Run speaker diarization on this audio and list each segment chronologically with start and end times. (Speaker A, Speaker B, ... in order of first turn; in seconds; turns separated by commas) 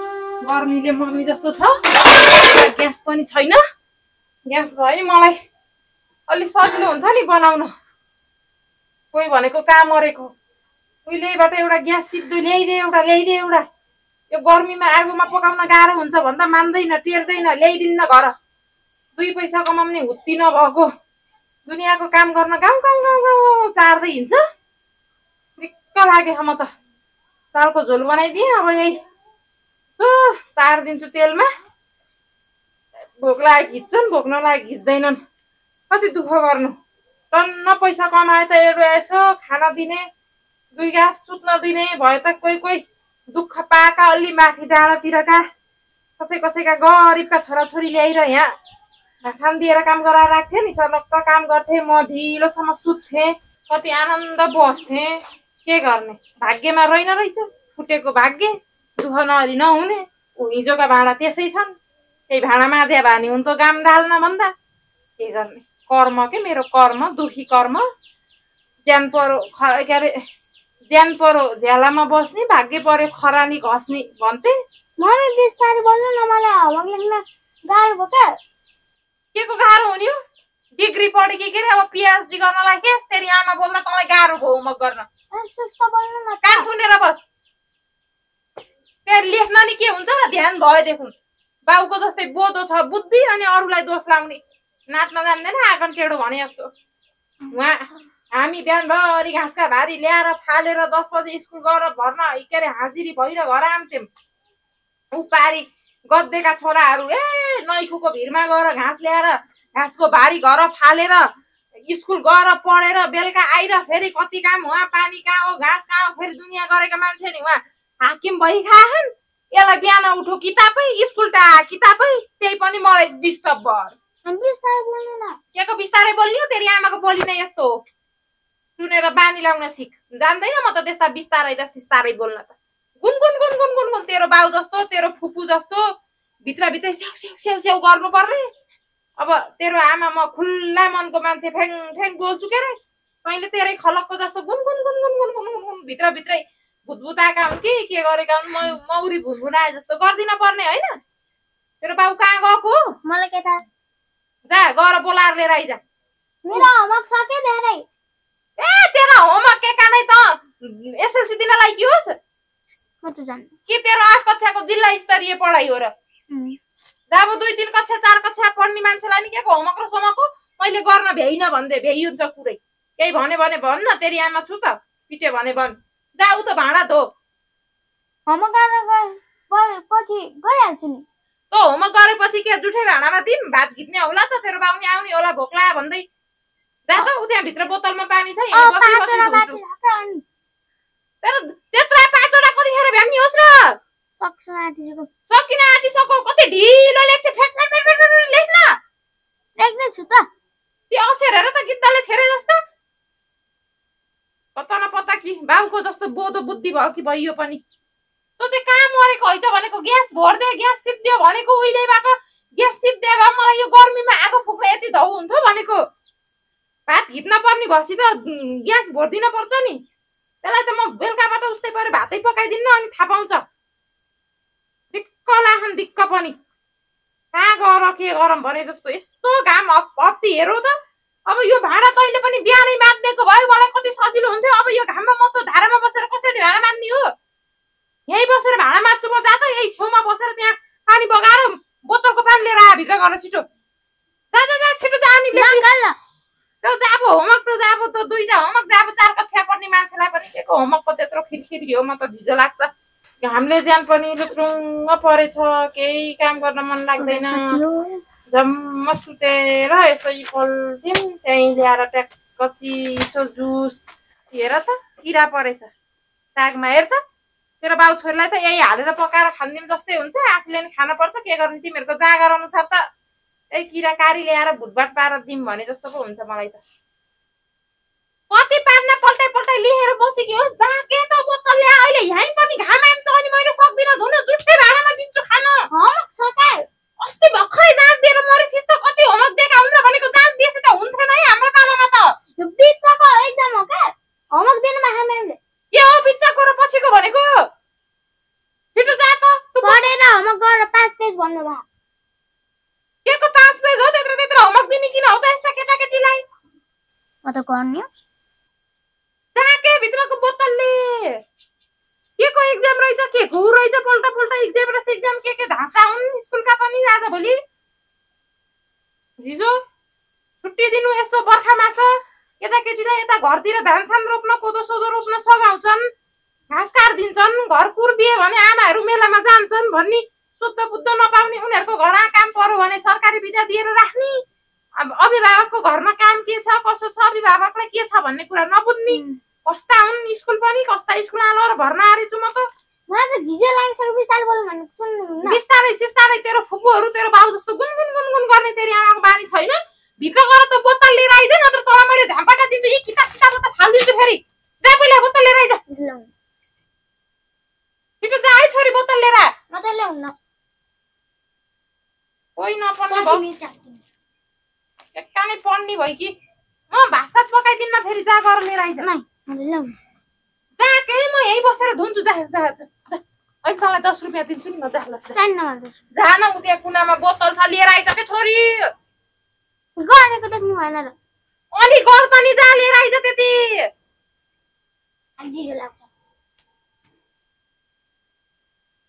Speaker A: 0.4-3.6, Speaker A: 4.5-5.3, Speaker A: 6.3-7.7, Speaker A: 9.1-10.3, Speaker A: 11.1-13.6, Speaker A: 14.3-18.3, Speaker A: 19.1-20.9, Speaker A: 21.7-24.4, Speaker A: 25.6-26.7, Speaker A: 27.5-29.0, Speaker A: 30.0-31.5, Speaker A: 33.2-35.2, Speaker A: 35.9-36.7, Speaker A: 37.3-40.0, Speaker A: 40.7-42.8, Speaker A: 43.3-45.4, Speaker A: 46.2-48.5, Speaker A: 49.2-55.1, Speaker A: 55.6-61.7, Speaker A: 62.3-64.5, Speaker A: 65.2-67.8, Speaker A: 68.9-70.1, Speaker A: 70.9-74.5, Speaker B: 75.0-78.3, Speaker A: 79.3-80.1, Speaker A: 80.8-85.1, Speaker B: 85.3-86.6, Speaker A: 86.4-87.2, Speaker A: 89.0-91.1, Speaker A: 91.7-96.7, Speaker A: 97.5-104.1, Speaker A: 105.1-111.3, Speaker A: 111.9-123.9, Speaker B: 124.2-125.3, Speaker A: 125.5-127.8, Speaker A: 128.8-135.8, Speaker A: 136.4-138.5, Speaker A: 139.2-151.0, Speaker A: 151.8-152.8, Speaker B: 153.0-153.6, Speaker A: 154.5-155.8, Speaker B: 156.4-157.8, Speaker A: 158.6-162.2, Speaker B: 163.0-163.5, Speaker A: 163.7-165.9, Speaker B: 166.3-166.6, Speaker A: 167.1-177.1, Speaker B: 178.3-181.0, Speaker A: 181.5-186.0, Speaker A: 186.9-189.6, Speaker B: 188.5-190.2, Speaker A: 191.2-193.8, Speaker B: 194.2-195.1, Speaker A: 195.3-198.8, Speaker B: 199.6-200.3, Speaker A: 200.9-202.6, Speaker A: 204.6-207.6, Speaker A: 208.4-215.8, Speaker A: 216.9-219.8, Speaker A: 220.4-223.4, Speaker A: 224.9-226.3, Speaker A: 227.3-230.7, Speaker A: 231.3-237.1, Speaker A: 238.1-243.4, Speaker A: 244.3-245.7, Speaker B: 245.3-245.9, Speaker A: 246.6-252.7, Speaker A: 253.2-257.6, Speaker B: 257.0-258.0, Speaker A: 258.3-263.8, Speaker A: 264.3-265.7, Speaker A: 266.4-267.0, Speaker A: 267.6-272.8, Speaker A: 273.5-276.6, Speaker A: 278.3-285.6, Speaker B: 285.7-286.6, Speaker A: 287.0-292.1, Speaker B: 292.4-295.4, Speaker A: 295.7-297.4, Speaker A: 298.7-299.8, Speaker B: 299.6-301.6, Speaker A: 303.1-306.2, Speaker B: 307.2-307.9, Speaker A: 309.4-311.2, Speaker A: 312.2-317.4, Speaker A: 319.2-319.6, Speaker A: 320.4-325.9, Speaker A: 326.5-334.2, Speaker A: 334.8-342.5, Speaker B: 338.9-339.2, Speaker B: 342.9-345.4, Speaker A: 345.2-355.6, Speaker B: 355.7-356.1, Speaker A: 358.0-359.3, Speaker B: 359.5-360.1, Speaker A: 362.4-363.2, Speaker B: 362.9-363.8, Speaker A: 364.9-366.1, Speaker A: 366.7-368.9, Speaker B: 368.8-369.7, Speaker A: 370.6-375.1, Speaker B: 375.1-375.8, Speaker A: 375.9-378.7, Speaker B: 379.8-380.9, Speaker A: 381.5-383.6, Speaker B: 385.2-385.9